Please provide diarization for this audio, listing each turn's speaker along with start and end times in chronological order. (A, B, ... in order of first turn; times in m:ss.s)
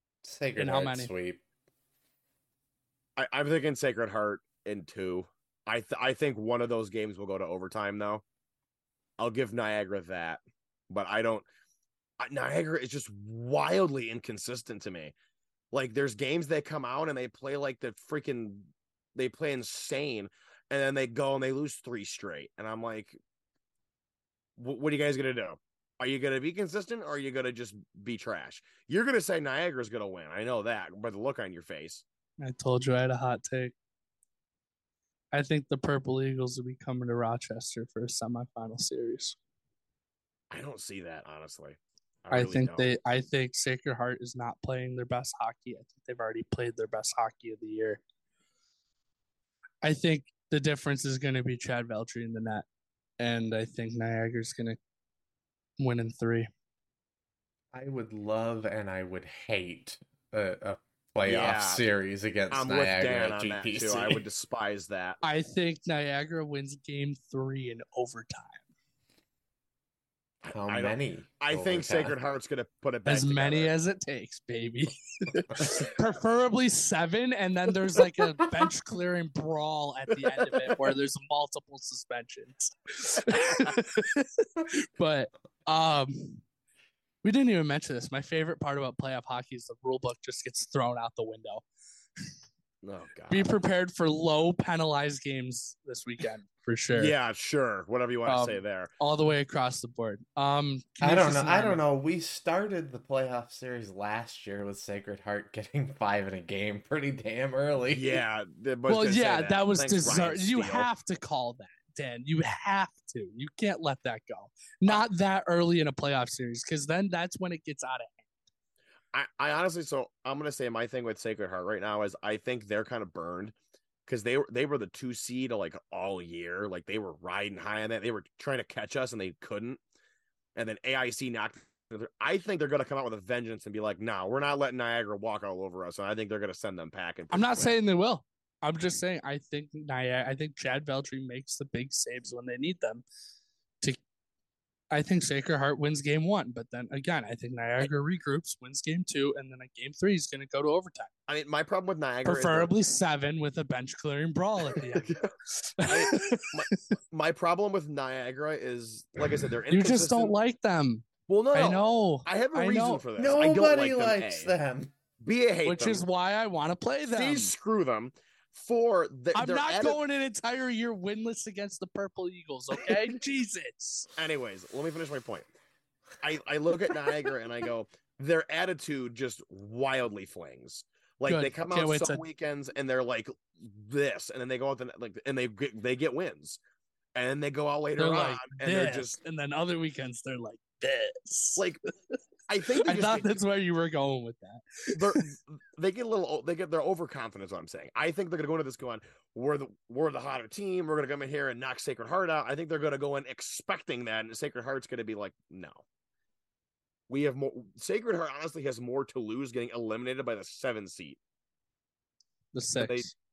0:00.2-0:01.4 A
0:00.6-0:01.1 B
0:03.2-0:08.2 C
0:09.2-0:11.5 C
0:12.2-0:15.2 C
0:15.7-0:23.2 C
0:24.6-0:32.0 C
0:32.4-0:33.7 B
0:35.3-0:39.4 B
0:40.5-0:42.9 C
0:42.3-0:48.0 B
0:49.8-0:52.7 B
0:53.2-0:54.8 B
0:55.8-0:56.5 B
0:57.7-1:04.2 A
1:01.2-1:01.8 C
1:02.5-1:05.2 C
1:05.2-1:08.6 B
1:10.4-1:12.2 A
1:10.5-1:13.7 C
1:13.1-1:26.4 B
1:27.2-1:31.6 B
1:32.8-1:33.5 C
1:33.3-1:37.1 B
1:36.9-1:38.9 C
1:38.3-1:41.8 B
1:41.0-1:48.2 A
1:47.9-1:50.9 C
1:48.9-1:58.3 B
1:59.1-2:03.6 C
2:04.1-2:09.8 C
2:10.6-2:17.7 C
2:17.3-2:23.0 B
2:24.9-2:31.1 B
2:31.3-2:32.7 C
2:32.2-2:36.8 B
2:34.9-2:35.3 C
2:35.8-2:40.3 C
2:39.7-2:43.0 B
2:41.3-2:44.5 C
2:43.2-2:44.9 A
2:45.2-2:46.0 C
2:45.7-2:47.5 B
2:47.1-2:50.0 C
2:49.3-2:54.1 B
2:54.2-2:55.5 C
2:56.2-3:06.6 C
3:01.3-3:02.2 B
3:07.2-3:09.2 C
3:08.0-3:12.1 B
3:12.5-3:13.4 C
3:12.7-3:15.2 B
3:15.0-3:25.8 C
3:27.1-3:31.2 C
3:32.5-3:33.2 B
3:32.8-3:33.1 C